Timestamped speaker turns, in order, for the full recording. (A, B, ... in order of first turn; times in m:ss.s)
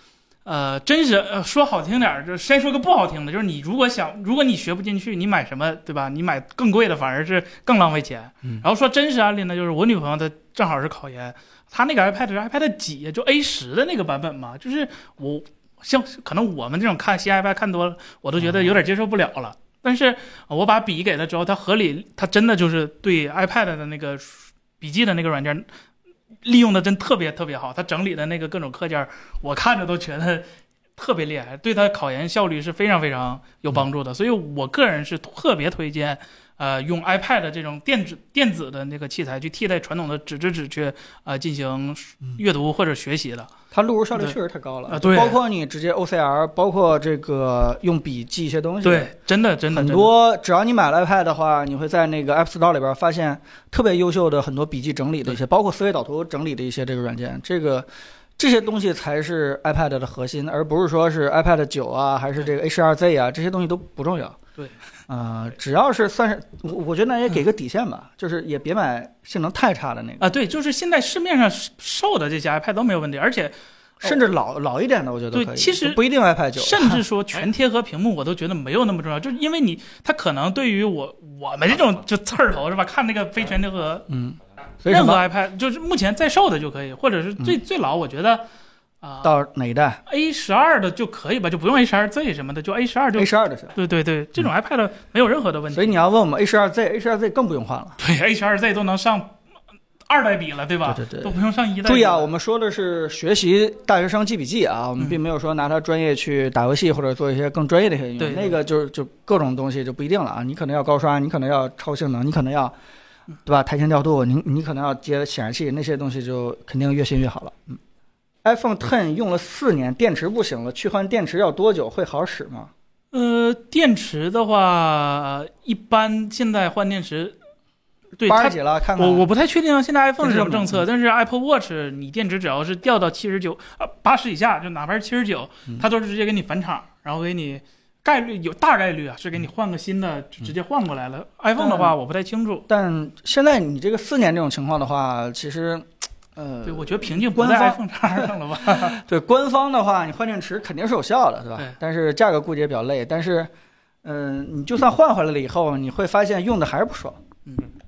0:00.4-0:25.6 A
0:18.4-0:18.7 B
0:26.4-0:30.4 A
0:31.0-0:43.5 A
0:43.7-0:49.1 B
0:44.9-0:45.4 A
0:48.8-0:50.1 A
0:49.7-0:57.9 B
0:58.4-1:04.4 B
1:05.1-1:10.2 B
1:10.2-1:14.1 A
1:14.0-1:17.0 B
1:15.3-1:16.0 A
1:16.6-1:24.1 A
1:24.1-1:25.2 B
1:24.9-1:28.4 A
1:29.0-1:29.3 A
1:29.2-1:30.0 B
1:30.1-1:36.0 A
1:33.1-1:33.7 B
1:35.7-1:38.0 B
1:38.0-1:39.3 A
1:40.1-1:42.3 A
1:40.8-1:52.7 B
1:48.2-1:48.6 A
1:53.4-1:57.7 B
1:58.4-2:02.7 B
2:03.1-2:07.4 A
2:08.2-2:22.7 A
2:08.2-2:09.3 B
2:10.2-2:10.8 B
2:21.6-2:21.9 B
2:22.7-2:33.5 B
2:26.6-2:29.0 A
2:34.0-2:37.2 B